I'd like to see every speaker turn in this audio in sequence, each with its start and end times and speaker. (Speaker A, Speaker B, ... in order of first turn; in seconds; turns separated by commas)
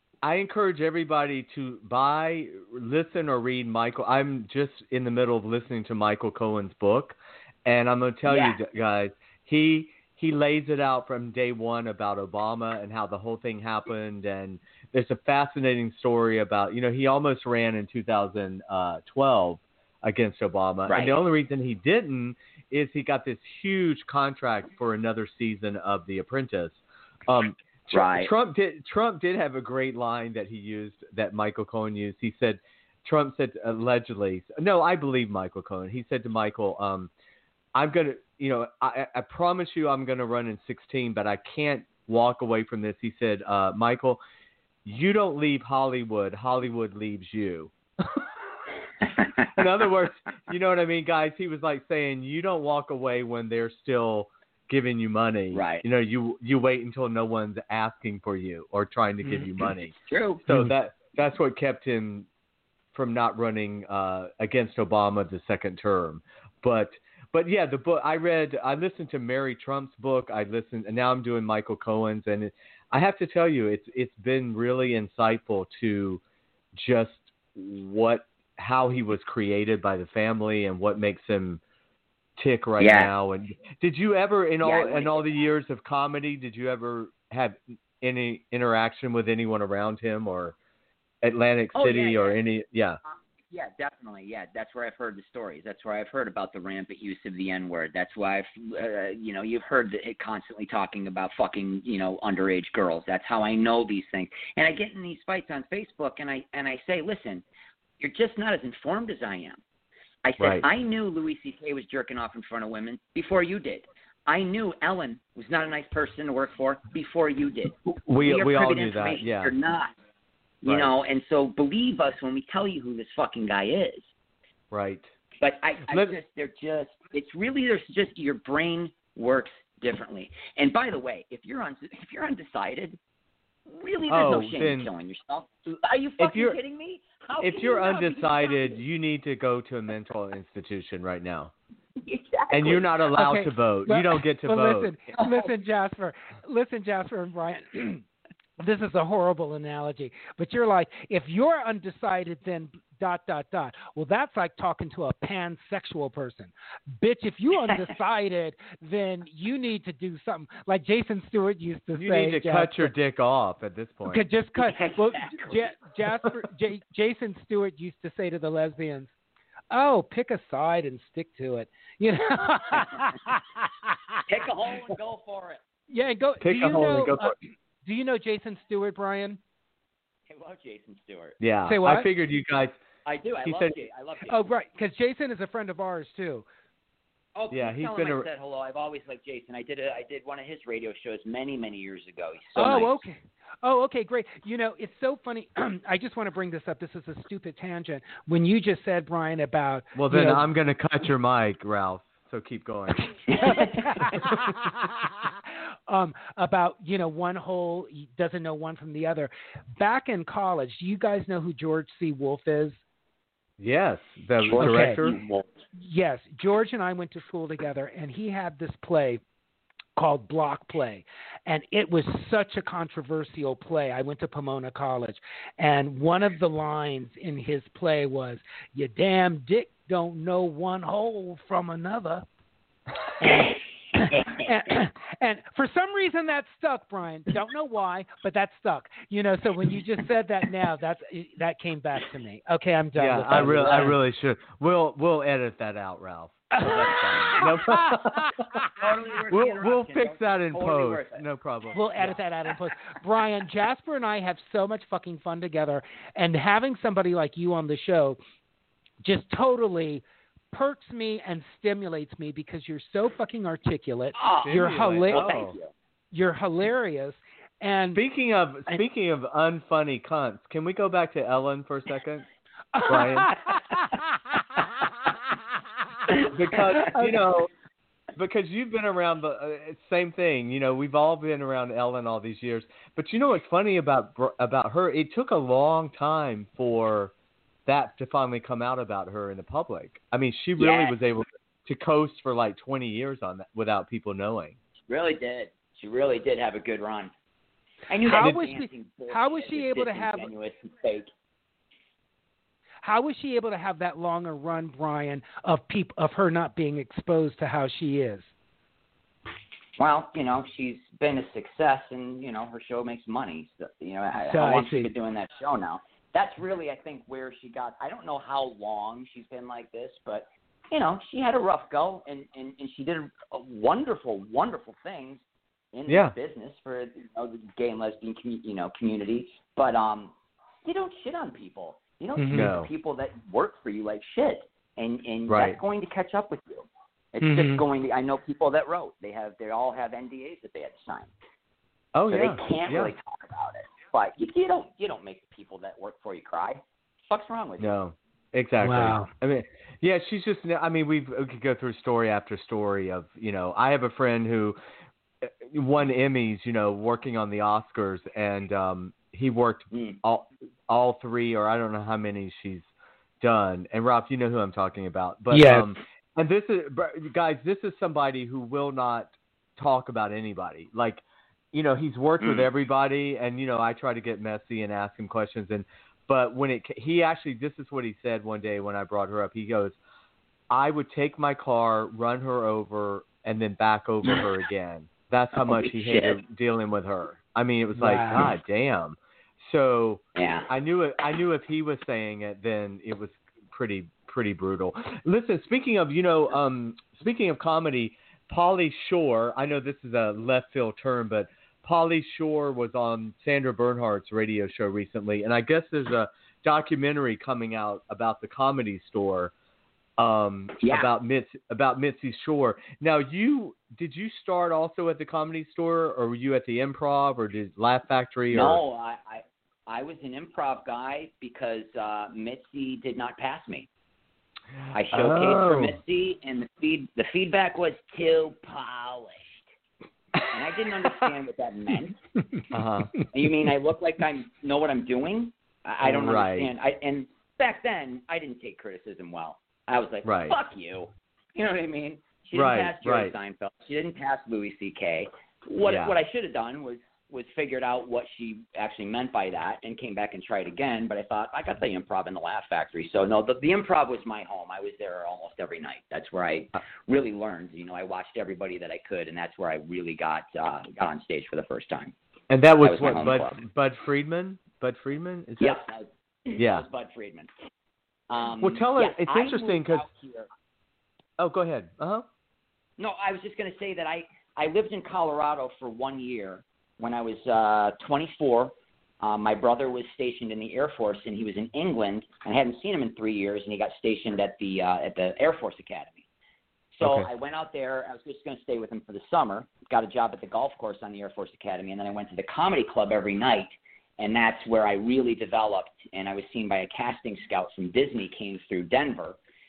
Speaker A: 0.2-37.1, Speaker B: 8.3-8.6, Speaker B: 20.9-21.2, Speaker B: 27.9-28.3, Speaker A: 37.7-44.2, Speaker A: 44.9-48.2, Speaker A: 49.5-60.0, Speaker B: 55.5-55.9, Speaker B: 60.0-60.4, Speaker A: 60.5-62.3, Speaker A: 62.9-76.2, Speaker A: 76.7-81.6, Speaker A: 82.4-90.5, Speaker B: 82.8-83.1, Speaker B: 84.6-85.3, Speaker A: 91.2-93.0, Speaker B: 91.7-92.4, Speaker B: 93.1-107.4, Speaker B: 108.0-109.6, Speaker B: 110.2-119.9, Speaker A: 110.4-110.7, Speaker A: 118.1-119.5, Speaker B: 120.6-124.1, Speaker A: 120.6-120.9, Speaker A: 124.7-125.1, Speaker B: 125.4-133.0, Speaker A: 125.9-126.2, Speaker B: 133.7-138.8, Speaker A: 134.1-134.9, Speaker A: 136.2-136.6, Speaker A: 137.4-141.5, Speaker B: 142.0-143.0, Speaker A: 142.5-144.9, Speaker C: 143.1-148.0, Speaker B: 145.2-145.5, Speaker C: 148.6-162.9, Speaker A: 161.9-164.3, Speaker C: 164.1-169.1, Speaker B: 164.6-165.7, Speaker C: 169.7-173.4, Speaker B: 174.3-175.6, Speaker C: 175.9-179.4, Speaker A: 176.4-177.3, Speaker B: 180.3-181.4, Speaker A: 181.4-182.8, Speaker C: 181.7-182.1, Speaker B: 183.1-184.4, Speaker A: 183.4-183.8, Speaker C: 184.3-186.4, Speaker B: 187.3-193.0, Speaker A: 187.5-188.3, Speaker C: 192.6-200.4, Speaker A: 199.9-203.2, Speaker B: 203.3-204.0, Speaker C: 203.9-204.7, Speaker C: 205.9-212.8, Speaker A: 213.6-215.2, Speaker B: 214.4-215.4, Speaker C: 214.5-215.1, Speaker C: 215.8-219.2, Speaker C: 220.0-232.3, Speaker C: 233.2-244.0, Speaker A: 242.9-248.4, Speaker B: 243.3-243.9, Speaker C: 246.5-248.0, Speaker B: 248.8-251.2, Speaker A: 249.3-252.2, Speaker C: 251.7-258.2, Speaker C: 259.0-265.4, Speaker B: 264.1-265.7, Speaker A: 264.4-265.6, Speaker C: 266.1-268.0, Speaker A: 267.9-272.3, Speaker C: 272.7-273.8, Speaker A: 272.9-273.3, Speaker A: 276.1-277.5, Speaker A: 278.2-287.1, Speaker A: 287.7-294.6, Speaker B: 290.6-291.0, Speaker B: 294.9-297.1, Speaker B: 297.9-301.1, Speaker C: 298.1-300.3, Speaker A: 298.2-298.4, Speaker C: 302.8-308.3, Speaker B: 309.8-341.1, Speaker C: 314.3-314.9, Speaker A: 325.9-326.1, Speaker C: 332.2-332.5, Speaker A: 332.3-332.7, Speaker A: 335.3-335.6, Speaker C: 337.2-337.6, Speaker A: 341.9-342.9, Speaker B: 342.1-347.8, Speaker A: 347.6-354.6, Speaker C: 348.6-349.1, Speaker A: 355.2-362.7, Speaker B: 359.7-360.0, Speaker A: 363.2-379.8, Speaker C: 365.3-365.7, Speaker A: 380.5-409.3, Speaker B: 385.4-386.2, Speaker C: 387.8-388.3, Speaker B: 390.2-390.5, Speaker A: 410.0-418.6, Speaker B: 410.6-410.9, Speaker B: 418.3-423.7, Speaker B: 424.7-429.5, Speaker A: 424.9-425.8, Speaker B: 430.3-432.0, Speaker A: 432.5-433.0, Speaker B: 433.1-461.9, Speaker A: 435.8-436.5, Speaker A: 440.0-440.4, Speaker A: 442.3-443.1, Speaker A: 445.6-445.9, Speaker A: 462.3-465.6, Speaker B: 462.6-463.4, Speaker B: 465.4-467.3, Speaker A: 466.4-466.7, Speaker B: 468.1-470.3, Speaker A: 468.4-469.9, Speaker A: 471.2-472.1, Speaker B: 472.8-486.0, Speaker B: 486.7-499.2, Speaker A: 486.8-487.1